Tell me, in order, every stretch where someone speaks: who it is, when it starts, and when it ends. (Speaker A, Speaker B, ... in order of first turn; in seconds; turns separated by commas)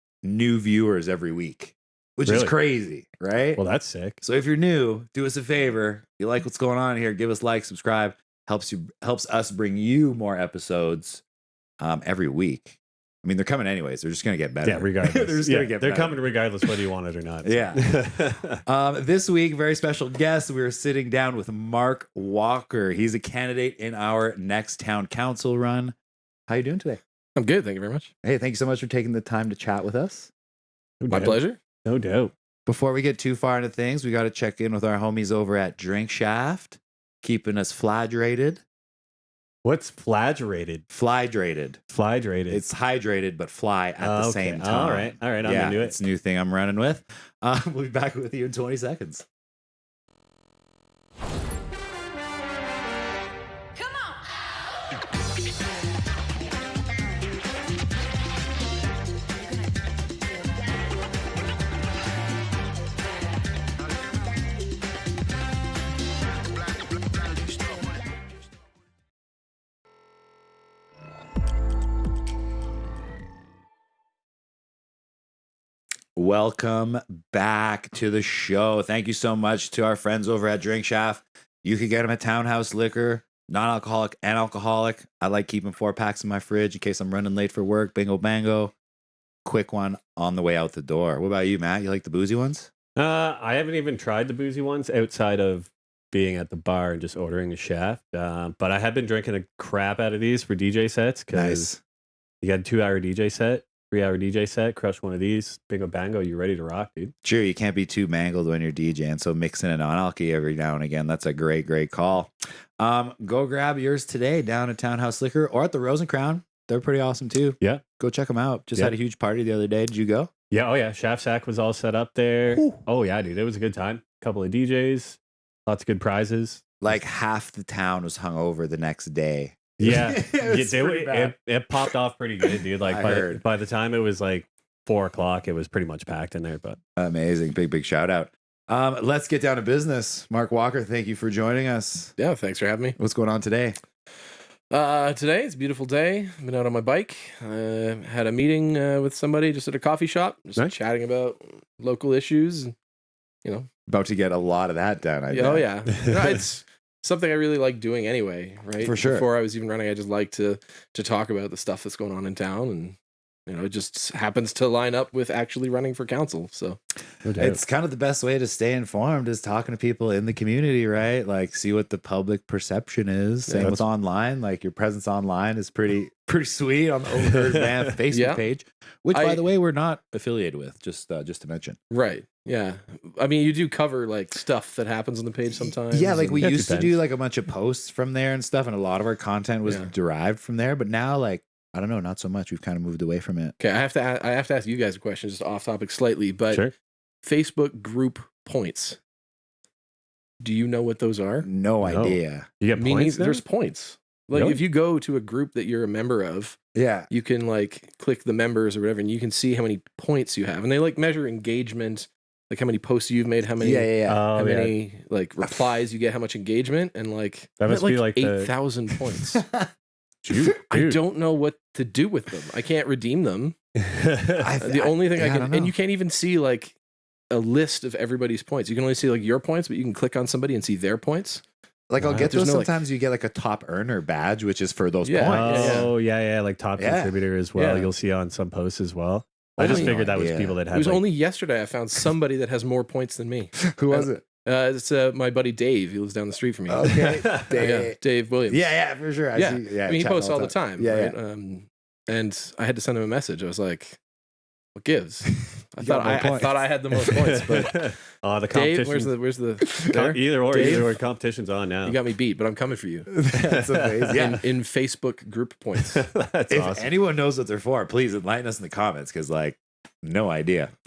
Speaker A: 0.2-3.6, Speaker B: 2.3-2.5, Speaker B: 3.6-4.2, Speaker A: 4.2-11.2, Speaker A: 11.8-16.2, Speaker B: 14.7-18.6, Speaker A: 17.4-17.8, Speaker A: 18.7-25.9, Speaker A: 26.5-27.0, Speaker C: 27.4-28.1, Speaker A: 28.2-30.3, Speaker B: 31.0-32.3, Speaker C: 31.1-31.6, Speaker A: 32.7-38.6, Speaker B: 39.6-40.8, Speaker A: 40.9-41.8, Speaker B: 41.9-42.6, Speaker A: 42.5-49.2, Speaker B: 44.0-46.0, Speaker A: 76.2-88.7, Speaker A: 89.5-92.7, Speaker B: 93.0-101.7, Speaker A: 101.3-101.8, Speaker B: 102.4-107.1, Speaker A: 107.2-120.3, Speaker B: 120.5-126.8, Speaker A: 122.5-122.8, Speaker A: 126.8-131.3, Speaker B: 129.8-136.8, Speaker A: 132.8-133.4, Speaker A: 137.0-142.1, Speaker C: 142.2-143.0, Speaker A: 143.0-143.8, Speaker C: 144.7-152.7, Speaker A: 153.9-155.7, Speaker C: 155.3-166.8, Speaker A: 158.8-159.2, Speaker B: 167.2-167.6, Speaker A: 167.4-181.8, Speaker C: 173.5-173.8, Speaker B: 173.6-173.8, Speaker C: 178.1-178.4, Speaker C: 179.1-179.4, Speaker C: 181.9-186.4, Speaker A: 185.9-193.6, Speaker B: 186.4-186.9, Speaker C: 193.6-196.7, Speaker C: 197.2-199.0, Speaker C: 200.4-201.5, Speaker A: 201.4-202.5, Speaker B: 201.8-203.4, Speaker C: 202.8-206.6, Speaker B: 204.3-204.6, Speaker A: 206.8-207.1, Speaker C: 207.1-219.4, Speaker A: 213.6-214.2, Speaker B: 214.1-214.7, Speaker B: 217.6-218.5, Speaker A: 219.3-219.7, Speaker B: 220.2-221.0, Speaker C: 220.6-223.6, Speaker B: 223.8-224.4, Speaker A: 224.4-225.7, Speaker C: 224.6-226.8, Speaker C: 227.3-231.4, Speaker A: 231.9-235.9, Speaker B: 232.0-232.3, Speaker C: 232.1-232.8, Speaker C: 235.0-235.9, Speaker B: 235.3-241.0, Speaker A: 236.8-237.2, Speaker C: 237.6-237.9, Speaker C: 239.6-240.1, Speaker A: 239.6-240.6, Speaker C: 240.7-248.8, Speaker A: 243.6-244.2, Speaker A: 246.7-248.0, Speaker B: 247.4-247.7, Speaker A: 248.5-251.2, Speaker C: 249.3-254.0, Speaker C: 254.8-257.9, Speaker A: 255.8-257.3, Speaker B: 257.1-259.1, Speaker C: 258.5-261.0, Speaker B: 259.9-262.0, Speaker A: 260.5-260.9, Speaker C: 261.9-263.1, Speaker A: 263.1-264.4, Speaker B: 263.3-264.2, Speaker C: 264.1-266.0, Speaker B: 265.8-266.9, Speaker A: 266.5-270.7